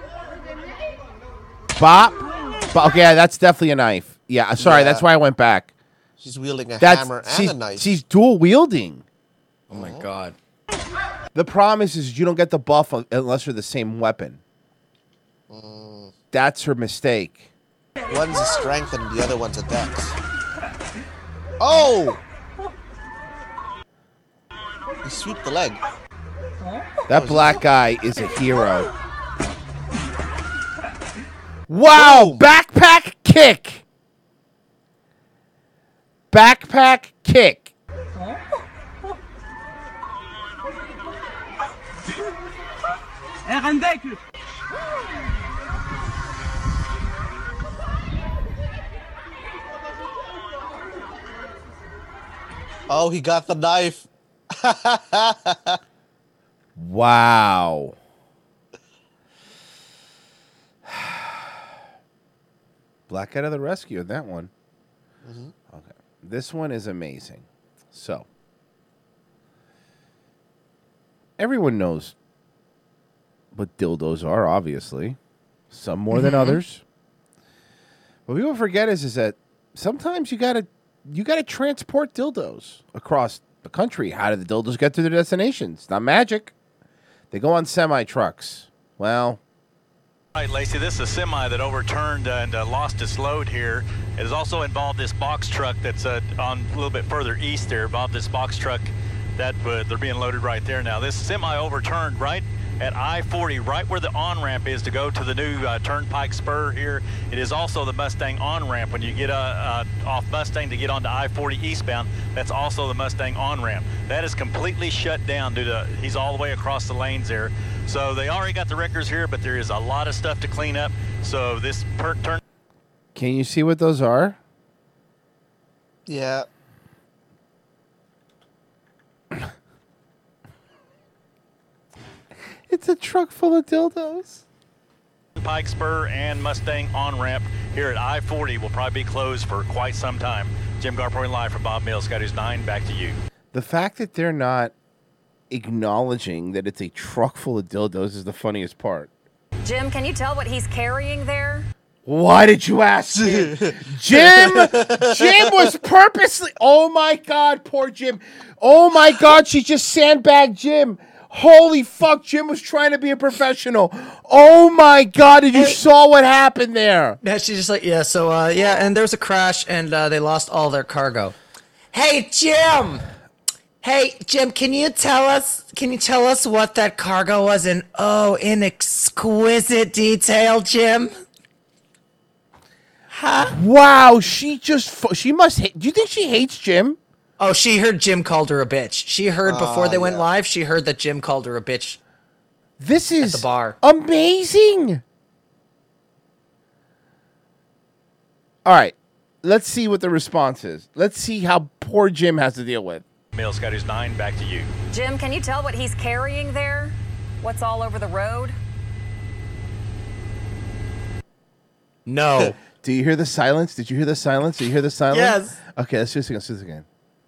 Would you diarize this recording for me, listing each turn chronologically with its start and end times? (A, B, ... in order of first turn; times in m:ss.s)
0:01.8-0:05.7 A
0:04.6-0:05.0 B
0:06.2-0:08.0 B
0:06.8-0:09.0 A
0:09.7-0:10.3 C
0:09.7-0:10.0 B
0:11.3-0:14.4 A
0:15.5-0:16.1 B
0:16.3-0:17.5 A
0:18.1-0:20.1 B
0:21.6-0:22.2 B
0:25.0-0:25.8 B
0:27.1-0:28.9 A
0:27.1-0:27.6 B
0:31.7-0:33.8 A
0:31.9-0:32.4 B
0:36.3-0:37.7 A
0:52.9-0:55.8 B
0:56.8-0:58.0 A
1:00.8-1:01.5 A
1:03.1-1:04.5 A
1:05.2-1:05.5 B
1:05.7-1:08.2 A
1:11.4-1:12.1 A
1:13.5-1:15.2 A
1:15.7-1:16.8 A
1:16.1-1:16.6 C
1:18.3-1:26.5 A
1:27.3-1:29.4 A
1:30.3-2:02.4 D
2:03.1-2:04.4 A
2:06.1-2:06.4 B
2:12.7-2:14.4 A
2:15.4-2:23.2 D
2:23.5-2:24.7 A
2:25.5-2:29.1 A
2:29.6-2:31.7 E
2:32.0-2:47.2 A
2:33.1-2:35.5 B
2:45.5-2:45.8 C
2:47.2-2:51.3 C
2:51.9-2:53.0 C
2:53.8-3:01.1 C
3:03.1-3:03.5 C
3:03.5-3:07.0 A
3:07.4-3:12.0 C
3:09.4-3:10.3 B
3:12.8-3:15.0 A
3:13.2-3:13.8 C
3:18.6-3:23.0 A
3:23.3-3:24.7 D
3:24.9-3:28.6 E
3:32.0-3:32.6 C
3:32.8-3:36.8 A
3:35.1-3:35.6 C